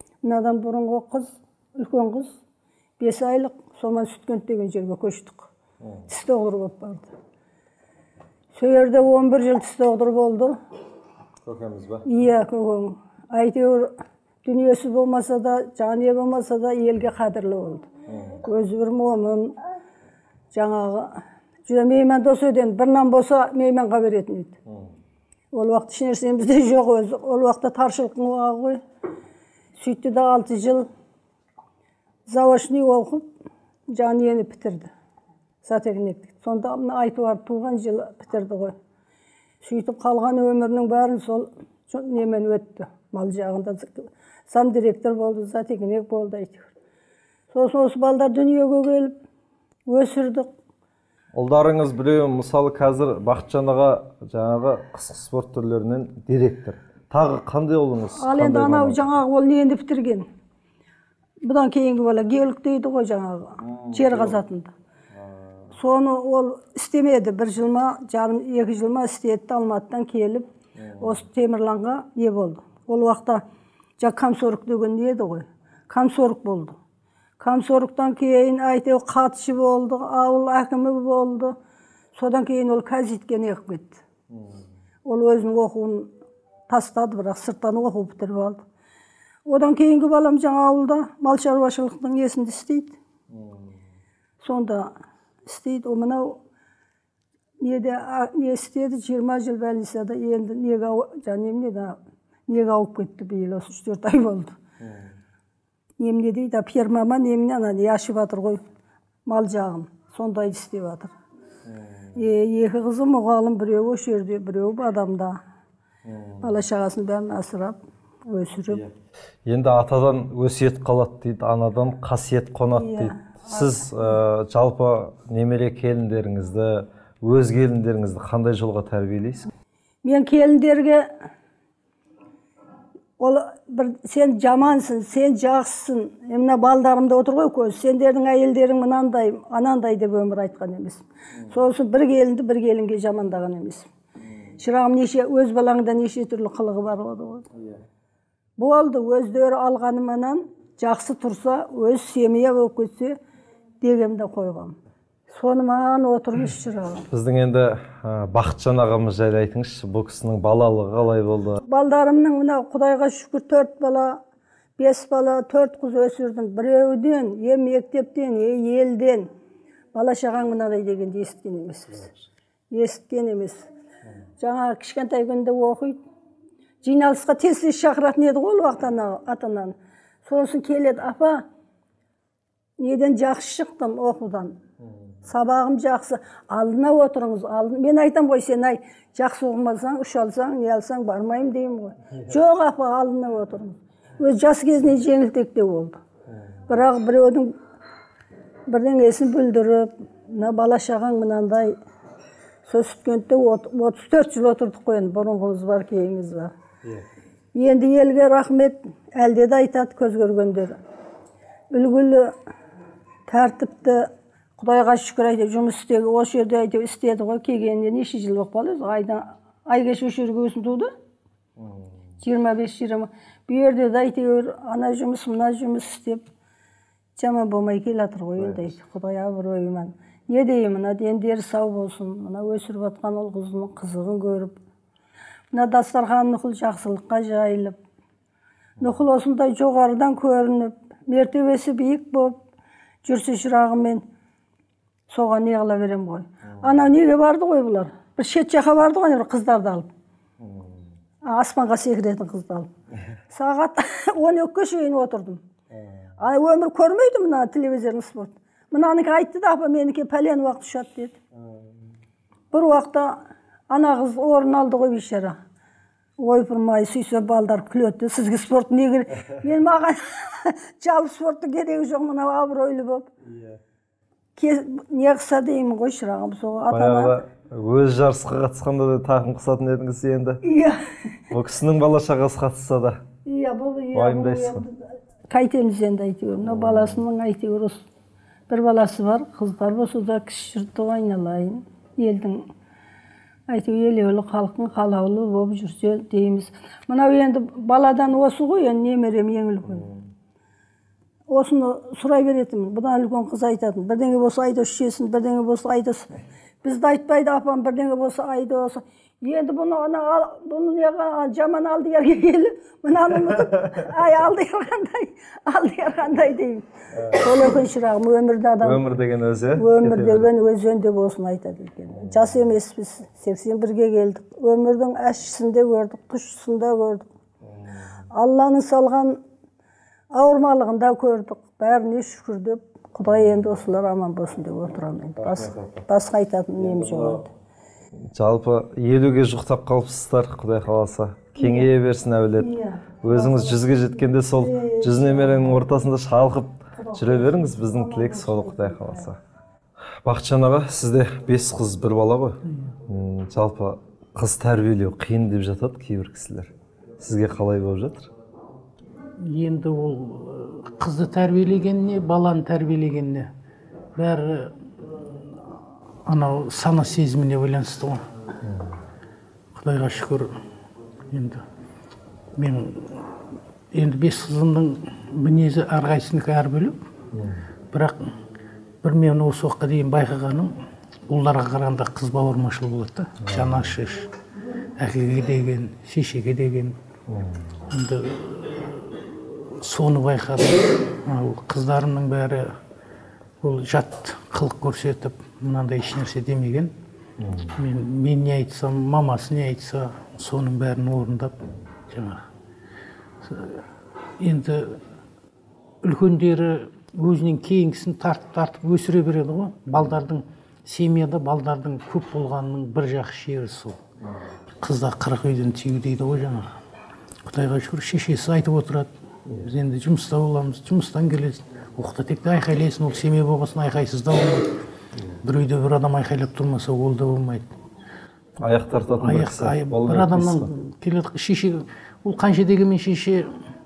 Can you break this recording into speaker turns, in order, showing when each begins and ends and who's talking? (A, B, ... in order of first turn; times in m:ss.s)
0:00.2-0:02.4 A
0:03.0-0:05.5 A
0:06.1-0:07.1 A
0:08.6-0:10.6 A
0:11.4-0:12.1 B
0:12.1-0:13.9 A
0:14.4-0:17.9 A
0:18.1-0:18.4 B
0:18.4-0:19.6 A
0:20.5-0:24.6 A
0:25.5-0:28.8 A
0:29.8-0:30.9 A
0:32.3-0:33.3 A
0:33.9-0:34.9 A
0:35.6-0:38.8 A
0:39.6-0:46.7 A
0:47.5-0:49.2 A
0:49.9-0:50.5 A
0:51.4-0:59.1 B
0:58.2-1:00.3 A
1:01.4-1:04.7 A
1:03.6-1:04.4 B
1:05.1-1:05.7 B
1:05.8-1:10.5 A
1:10.8-1:11.2 B
1:11.0-1:13.4 A
1:14.0-1:16.8 A
1:17.4-1:21.6 A
1:22.2-1:24.0 A
1:24.3-1:24.6 B
1:25.0-1:26.1 A
1:26.7-1:28.6 A
1:29.5-1:33.0 A
1:33.3-1:33.8 B
1:34.4-1:34.9 A
1:35.5-1:36.4 A
1:37.6-1:42.0 A
1:42.5-1:44.6 A
1:44.8-1:45.1 B
1:46.0-1:48.6 A
1:49.3-1:51.1 A
1:51.7-1:52.2 B
1:52.2-1:55.4 A
1:56.0-1:56.6 B
1:56.4-1:58.8 A
1:59.5-2:09.5 B
2:02.8-2:03.9 A
2:10.0-2:11.1 A
2:13.2-2:23.9 A
2:24.2-2:24.5 B
2:24.6-2:27.4 A
2:28.6-2:33.2 A
2:33.8-2:34.8 A
2:35.3-2:37.1 A
2:37.1-2:41.6 B
2:41.7-2:44.2 A
2:44.8-2:49.3 A
2:49.9-2:52.1 A
2:52.7-2:53.6 A
2:54.4-2:56.0 A
2:56.8-3:01.4 A
3:02.8-3:04.6 A
3:05.3-3:16.0 A
3:16.7-3:17.5 A
3:18.7-3:21.8 A
3:22.7-3:26.5 A
3:27.6-3:30.8 A
3:31.7-3:32.3 A
3:33.3-3:40.9 A
3:41.6-3:42.0 B
3:42.2-3:46.2 A
3:47.2-3:54.6 A
3:48.4-3:48.7 B
3:55.5-3:57.8 A
3:58.8-4:02.4 A
4:03.0-4:04.0 A
4:05.1-4:09.9 A
4:10.4-4:10.9 B
4:11.2-4:12.7 A
4:13.3-4:15.4 A
4:15.7-4:16.1 B
4:16.2-4:21.2 A
4:22.5-4:23.2 A
4:23.7-4:25.4 A
4:26.2-4:33.1 A
4:33.3-4:33.6 B
4:34.4-4:37.2 A
4:36.7-4:40.4 B
4:40.4-4:40.8 A
4:41.3-4:43.0 B
4:43.3-4:44.8 A
4:43.9-4:44.6 B
4:45.3-4:47.8 A
4:46.4-4:47.0 B
4:48.5-4:52.4 A
4:53.5-4:59.9 A
4:59.7-5:00.0 B
5:01.3-5:06.1 A
5:06.6-5:18.9 A
5:13.3-5:13.9 B
5:16.9-5:17.4 B
5:18.6-5:20.3 B
5:19.6-5:27.1 A
5:22.0-5:22.2 B
5:27.4-5:28.0 B
5:28.1-5:29.2 A
5:30.1-5:37.3 A
5:33.1-5:33.4 B
5:35.2-5:35.9 B
5:36.6-5:37.2 B
5:38.2-5:42.5 B
5:41.4-5:41.7 A
5:42.4-5:43.7 A
5:43.0-5:49.2 B
5:44.4-5:45.5 A
5:46.8-5:49.1 A
5:50.0-5:58.1 B
5:59.2-6:03.3 C
6:04.0-6:04.6 C
6:06.1-6:08.0 C
6:08.4-6:08.7 B
6:09.6-6:10.4 C
6:11.1-6:11.4 C
6:12.4-6:13.1 C
6:13.7-6:16.8 C
6:17.1-6:17.4 B
6:17.7-6:18.1 C
6:18.8-6:20.5 C
6:21.1-6:24.1 C
6:23.2-6:23.8 B
6:24.8-6:26.8 C
6:27.1-6:27.5 B
6:27.7-6:32.5 C
6:33.4-6:36.7 C
6:37.2-6:37.6 B
6:37.6-6:41.4 C
6:41.9-6:42.2 C
6:43.2-6:43.6 C
6:44.2-6:44.8 C
6:45.8-6:53.8 C
6:54.6-6:56.5 C
6:57.2-7:04.5 C
7:05.2-7:07.5 C
7:08.4-7:10.5 B
7:09.0-7:13.3 C